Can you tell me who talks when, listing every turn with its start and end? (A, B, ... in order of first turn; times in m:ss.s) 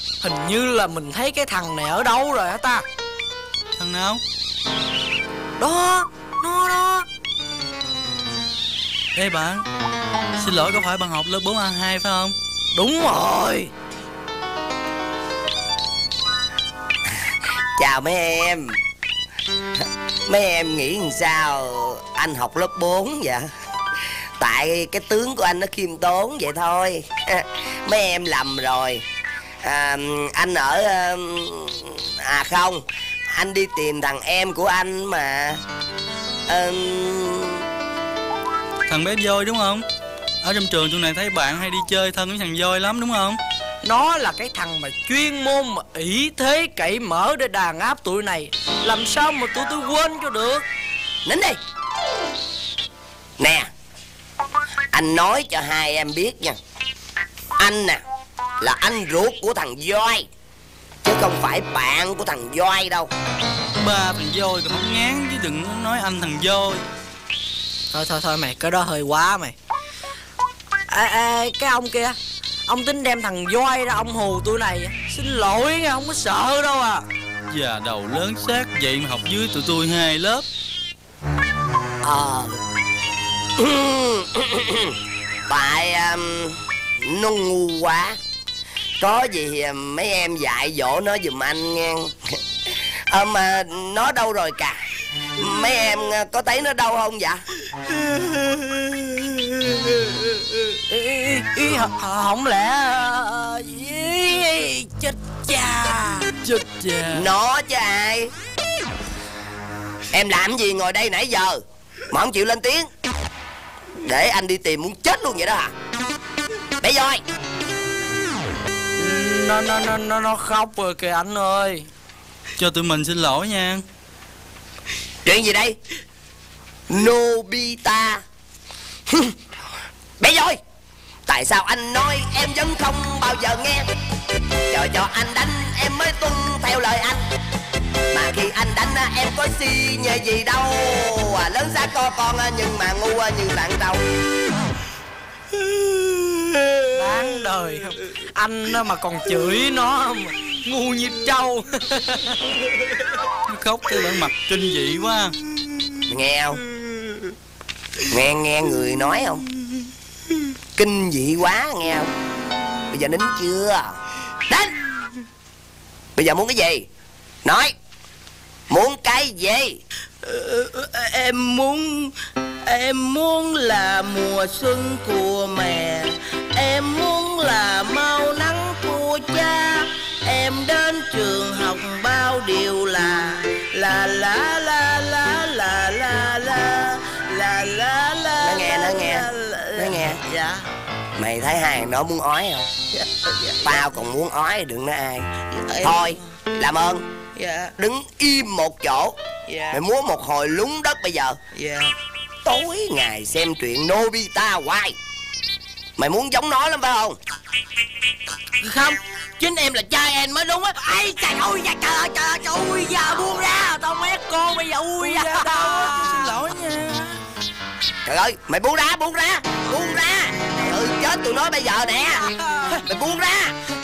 0:00.2-0:02.8 A
0:03.8-0:04.2 B
0:05.6-0:07.0 A
0:09.2-0:09.6 B
0:10.4-0:12.4 B
0:12.7-0:13.7 A
0:17.8-0:18.8 C
0:20.3-0:23.5 C
0:24.4-0:29.0 C
0:29.6-0:35.6 C
0:36.5-0:37.6 C
0:38.9-0:39.8 B
0:40.4-0:43.4 B
0:43.8-0:50.7 A
0:51.3-0:51.6 C
0:53.4-0:53.7 C
0:54.9-0:56.6 C
0:57.6-0:58.0 C
0:58.6-1:00.3 C
1:01.0-1:03.1 C
1:03.8-1:06.8 B
1:07.9-1:09.5 A
1:10.9-1:17.0 A
1:17.5-1:20.5 B
1:22.0-1:22.6 C
1:23.6-1:28.2 C
1:29.0-1:32.4 C
1:33.1-1:34.8 C
1:35.4-1:37.4 C
1:38.0-1:38.9 A
1:40.9-1:46.4 A
1:46.4-1:47.2 B
1:47.1-1:48.3 C
1:50.1-1:52.9 C
1:54.0-1:55.7 C
1:56.8-1:57.2 C
1:59.0-2:01.9 A
2:02.6-2:03.8 B
2:05.2-2:05.8 C
2:06.9-2:08.2 C
2:09.1-2:09.4 C
2:10.2-2:10.6 C
2:11.3-2:13.9 C
2:14.7-2:17.2 C
2:18.1-2:24.0 C
2:26.9-2:32.4 A
2:33.5-2:35.4 B
2:36.1-2:36.6 C
2:38.1-2:39.4 C
2:40.8-2:42.1 C
2:42.9-2:44.0 C
2:46.2-2:46.9 C
2:47.4-2:47.8 C
2:48.7-2:49.8 C
2:50.2-3:10.6 D
3:08.4-3:10.2 C
3:11.2-3:13.0 C
3:13.6-3:17.1 C
3:15.6-3:16.2 D
3:17.4-3:17.7 D
3:17.8-3:19.2 C
3:19.5-3:19.8 D
3:19.7-3:21.4 C
3:21.5-3:21.9 D
3:22.4-3:25.0 C
3:26.0-3:27.2 C
3:28.6-3:33.8 D
3:30.9-3:36.3 A
3:35.0-3:37.2 B
3:38.1-3:42.2 C
3:42.8-3:43.6 C